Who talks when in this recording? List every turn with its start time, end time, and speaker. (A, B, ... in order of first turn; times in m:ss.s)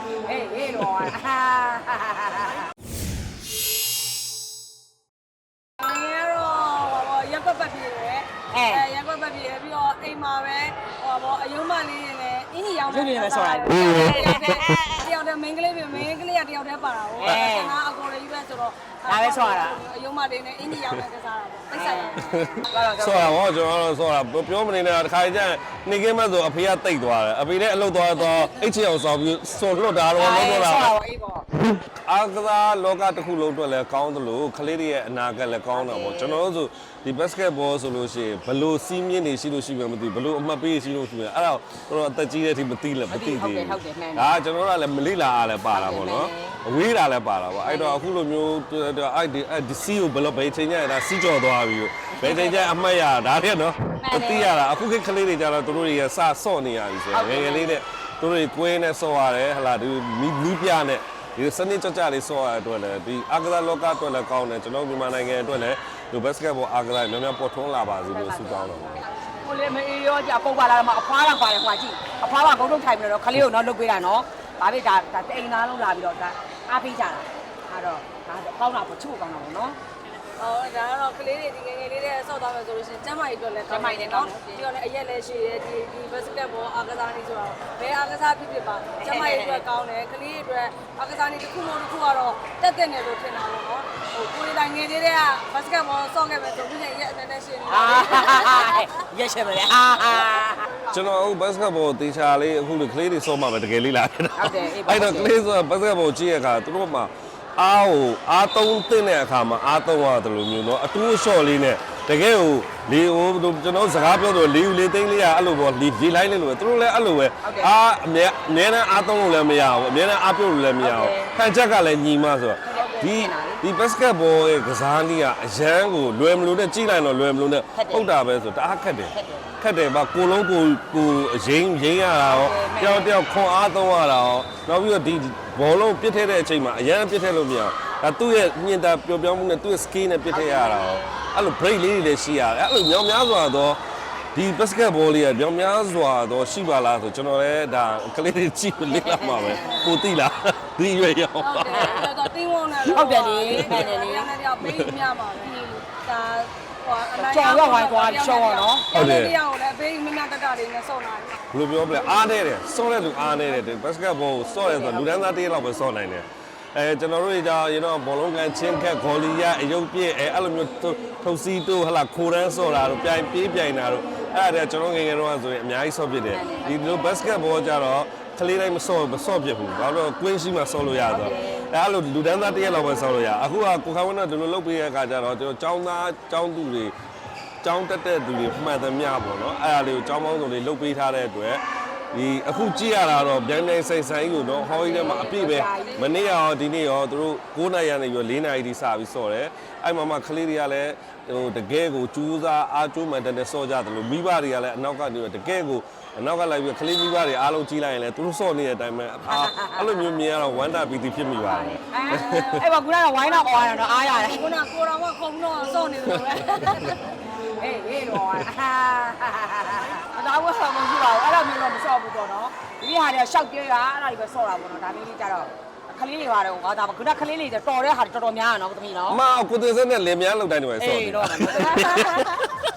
0:00.3-0:02.7 A
0:05.8-0:22.3 B
0:08.5-0:08.9 A
0:12.9-0:15.0 A
0:17.2-0:17.8 A
0:19.1-0:19.8 A
0:21.7-0:23.4 A
0:22.3-0:30.9 C
0:30.2-0:31.5 A
0:32.1-1:09.0 C
0:35.7-0:36.4 A
0:43.1-0:44.4 A
0:45.7-0:46.6 A
0:47.6-0:48.0 A
0:52.1-0:52.7 A
0:54.0-0:54.5 A
0:57.1-0:57.8 A
1:08.1-1:19.8 A
1:20.4-1:38.9 B
1:23.7-1:24.7 A
1:29.0-1:29.7 A
1:37.7-1:40.6 A
1:40.9-2:23.8 C
1:44.4-1:45.4 A
1:57.4-1:57.7 A
2:00.8-2:01.4 A
2:02.6-2:03.6 A
2:07.7-2:08.1 A
2:09.1-2:09.5 A
2:12.2-2:13.1 A
2:20.3-2:21.2 A
2:24.3-2:31.9 C
2:28.9-2:29.9 A
2:31.4-2:41.4 B
2:31.7-2:32.1 A
2:32.8-2:34.3 A
2:34.6-2:34.9 C
2:37.2-2:38.9 A
2:38.9-2:39.4 C
2:41.5-3:06.9 C
2:44.5-2:45.3 A
2:56.3-2:56.9 A
3:01.0-3:01.6 A
3:07.6-3:32.6 C
3:14.7-3:16.2 A
3:29.3-3:30.1 A
3:31.5-3:34.5 A
3:32.1-3:32.7 B
3:33.2-3:37.2 B
3:37.6-3:49.2 A
3:49.1-3:52.2 C
3:50.8-3:52.4 A